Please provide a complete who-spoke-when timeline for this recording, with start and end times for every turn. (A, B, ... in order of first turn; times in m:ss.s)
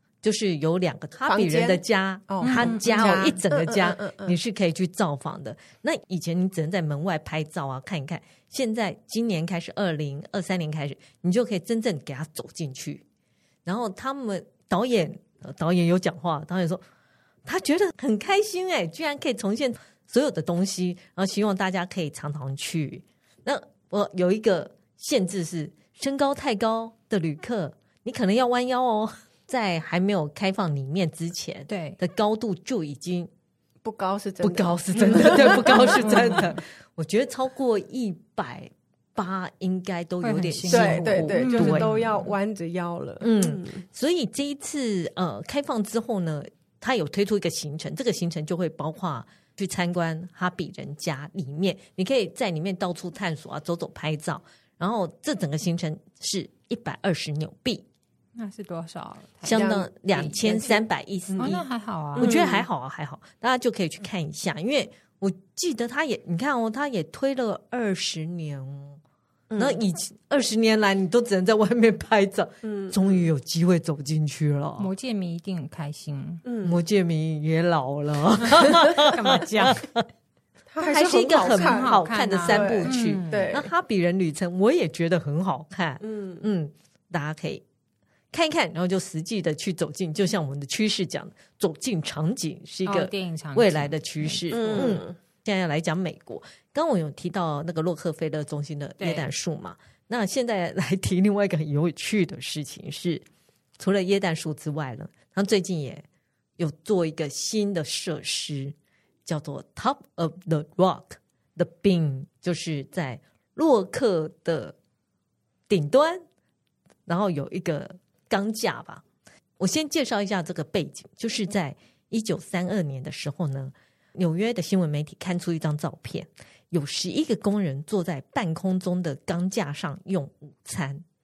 0:00.2-0:13.0 A
0:01.2-0:04.4 B
0:02.4-0:03.3 C
0:13.6-0:16.8 A
0:17.4-0:33.3 A
0:31.7-0:32.0 C
0:33.8-0:36.4 B
0:34.4-0:41.9 A
0:35.9-0:36.6 C
0:40.2-0:42.3 C
0:40.7-0:43.8 B
0:43.2-0:57.8 A
0:58.4-0:59.6 C
0:59.4-1:01.6 A
0:59.5-0:59.9 B
1:00.2-1:00.7 C
1:01.4-1:02.5 C
1:02.2-1:02.6 B
1:02.2-1:09.0 A
1:09.5-1:09.8 B
1:09.6-1:14.9 A
1:12.6-1:13.3 B
1:14.8-1:16.4 C
1:16.4-1:16.8 B
1:16.6-1:20.0 A
1:18.5-1:19.8 C
1:20.7-1:23.7 B
1:20.8-1:27.6 A
1:21.4-1:23.5 C
1:26.0-1:26.4 B
1:28.3-1:43.2 A
1:32.8-1:34.9 C
1:34.5-1:35.2 B
1:39.0-1:39.3 C
1:43.8-1:46.0 A
1:46.6-1:54.8 A
1:55.7-1:56.2 A
1:57.1-1:59.0 A
1:59.6-2:11.0 A